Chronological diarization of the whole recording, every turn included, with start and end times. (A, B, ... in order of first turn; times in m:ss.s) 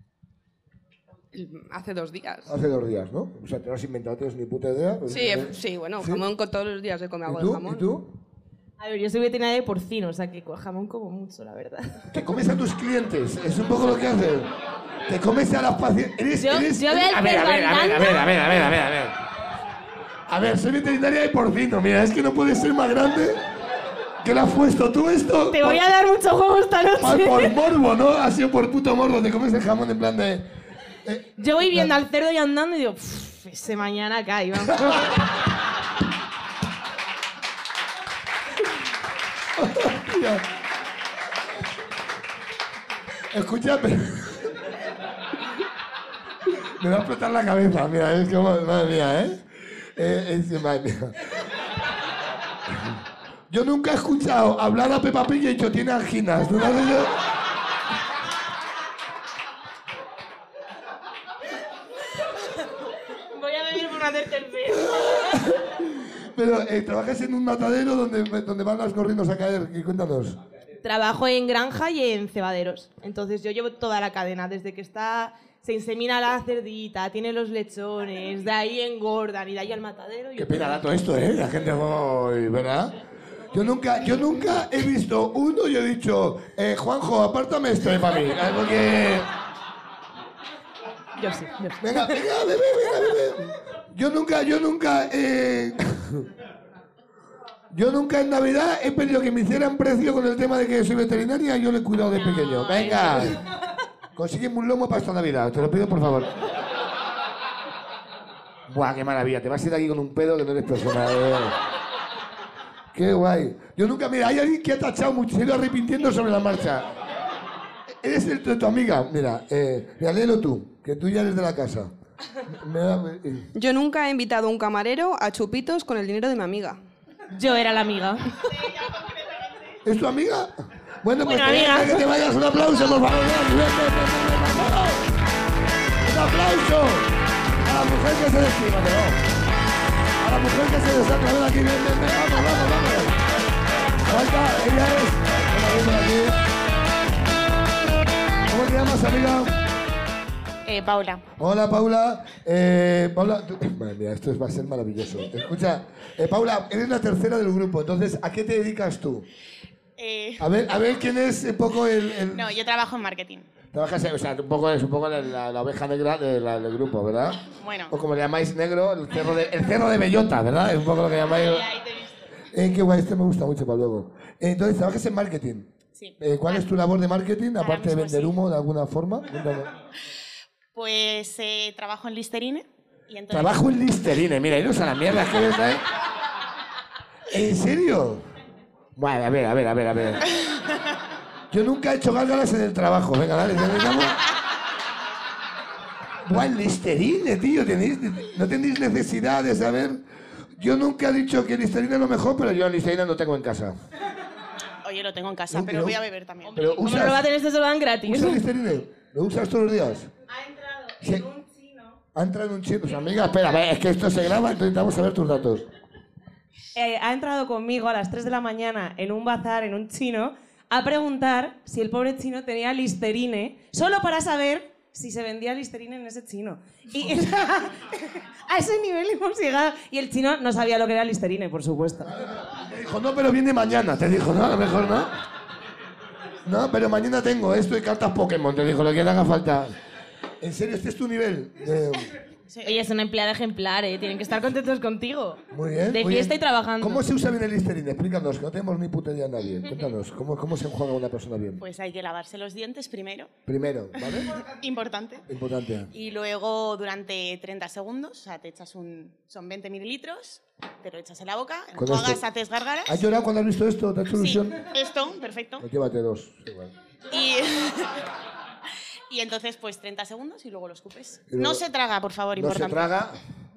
0:01.3-0:02.5 A
0:02.5-0:06.2 B
0:05.1-0:07.8 A
0:07.3-0:08.1 B
0:08.8-0:12.1 C
0:12.1-0:14.5 B
0:15.1-0:19.2 B
0:16.4-0:18.3 C
0:20.3-0:23.4 B
0:24.2-0:25.8 B
0:25.5-0:27.6 C
0:27.0-0:30.5 B
0:31.0-0:31.9 B
0:31.4-0:35.2 C
0:39.6-0:40.4 B
0:43.3-0:44.5 B
0:46.5-0:49.4 B
0:50.0-0:51.3 B
0:53.5-0:57.2 B
1:03.3-1:05.4 C
1:04.7-1:10.4 B
1:10.8-1:20.8 C
1:20.4-1:23.0 B
1:23.5-1:29.3 B
1:31.2-1:32.2 C
1:31.8-1:36.3 B
1:37.7-1:43.4 B
1:44.2-1:46.4 B
1:48.7-1:51.6 B
1:52.9-1:57.0 B
1:58.0-2:01.9 B
2:02.5-2:03.5 B
2:03.6-2:06.8 A
2:07.3-2:08.4 C
2:09.8-2:15.0 B
2:11.2-2:12.0 C
2:16.0-2:19.2 B
2:20.2-2:23.2 B
2:24.1-2:26.4 B
2:28.5-2:29.6 B
2:30.7-2:31.2 D
2:31.4-2:39.3 B
2:40.0-2:40.5 D
2:40.4-2:42.6 B
2:42.3-2:43.5 D
2:43.7-2:51.7 B
2:47.5-2:47.9 D
2:52.5-2:59.7 B
2:56.0-2:56.6 D
2:57.6-2:58.4 D
3:00.7-3:03.7 D
3:03.3-3:05.8 B
3:07.3-3:08.2 B
3:09.0-3:10.3 B
3:11.5-3:14.2 B
3:16.2-3:20.0 B
3:20.6-3:23.8 B
3:24.8-3:26.8 D
3:25.5-3:26.0 B
3:26.6-3:27.2 B
3:26.6-3:28.4 C
3:28.1-3:30.1 B
3:30.4-3:31.8 E
3:31.0-3:31.3 B
3:32.1-3:35.7 B
3:36.7-3:47.7 E
3:48.5-3:48.9 C
3:48.6-3:51.9 E
3:52.0-3:55.1 B
3:56.5-3:59.8 B
4:00.4-4:02.1 B
4:02.5-4:02.8 D
4:02.6-4:07.0 C
4:05.5-4:11.6 B
4:11.6-4:13.3 D
4:13.5-4:14.4 B
4:14.3-4:15.2 D
4:15.3-4:15.9 B
4:15.9-4:23.0 D
4:21.8-4:22.2 B
4:22.9-4:24.6 B
4:24.2-4:25.7 D
4:25.6-4:26.7 B
4:27.1-4:27.9 D
4:29.1-4:32.9 D
4:31.3-4:31.6 B
4:32.4-4:33.2 B